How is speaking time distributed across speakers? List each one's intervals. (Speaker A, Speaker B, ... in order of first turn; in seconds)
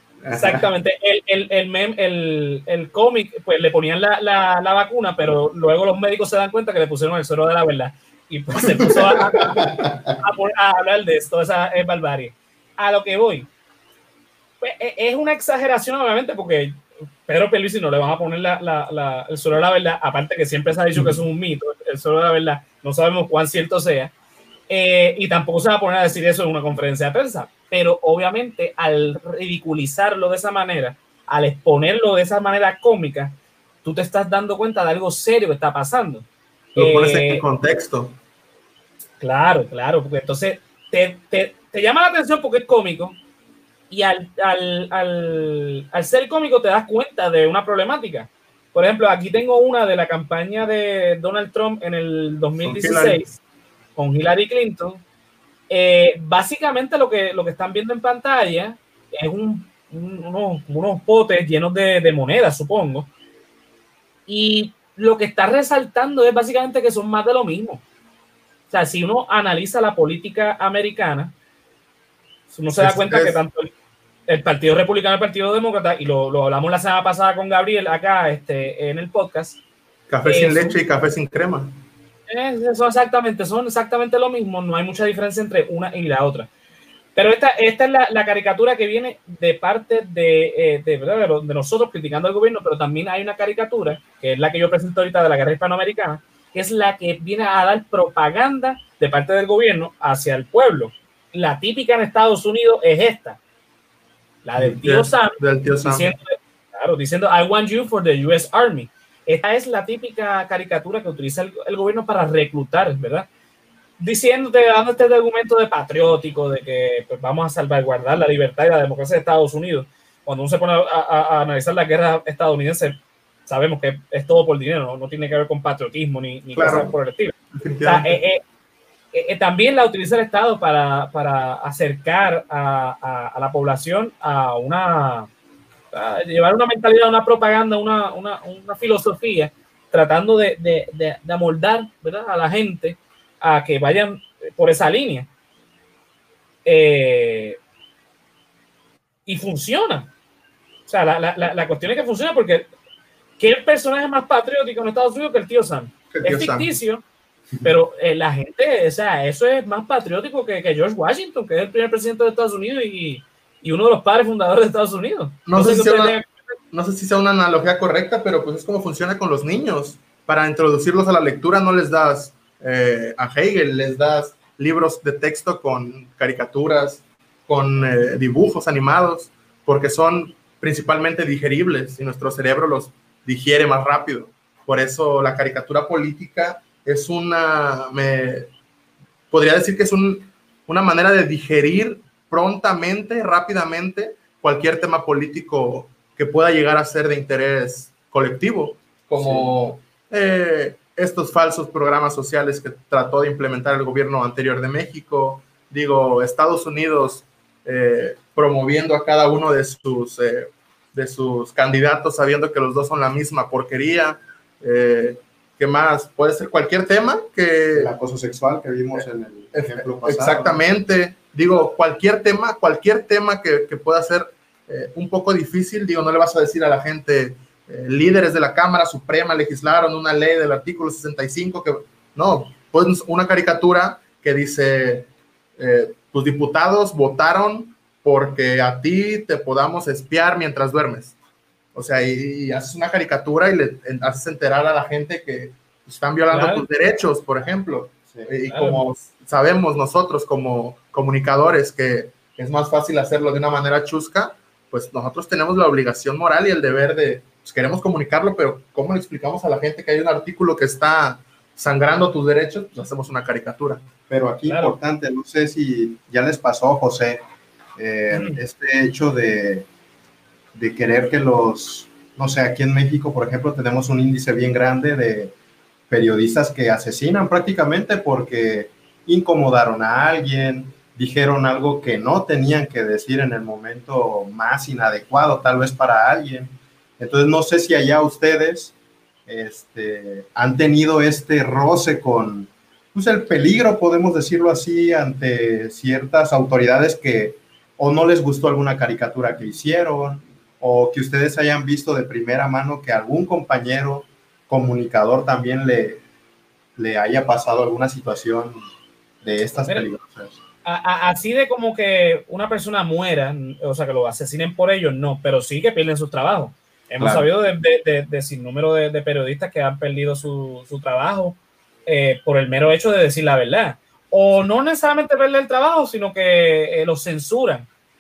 Speaker A: 0.2-0.7, 36.8-38.1, 52.6-53.2, 72.8-73.4, 80.1-81.7, 104.6-106.1, 126.5-126.9, 127.5-128.2, 156.1-156.7, 165.4-166.2, 166.7-188.5, 189.3-217.9, 218.9-241.1, 241.7-263.8
Speaker B: 0.3-9.7, 10.2-13.5, 14.6-24.1, 24.7-37.4, 39.2-43.2, 43.9-53.4, 54.0-55.0, 55.7-63.1, 64.3-67.8, 68.7-71.3, 72.5-73.7, 74.3-79.6, 80.2-80.8, 82.3-86.5, 87.1-103.4, 104.4-113.3, 114.0-128.4, 129.1-135.3, 135.9-145.3, 146.6-147.6, 149.2-150.1, 150.8-152.7, 153.4-157.0, 157.6-166.3, 246.3-246.6, 248.5-248.8, 264.5-264.8, 268.1-268.4, 310.6-327.7
Speaker C: 9.4-10.2, 199.2-199.5, 217.7-220.6, 264.1-267.2, 267.8-269.7, 270.5-275.3, 275.9-288.7, 289.3-306.0, 306.8-308.6, 309.2-310.3, 317.0-317.3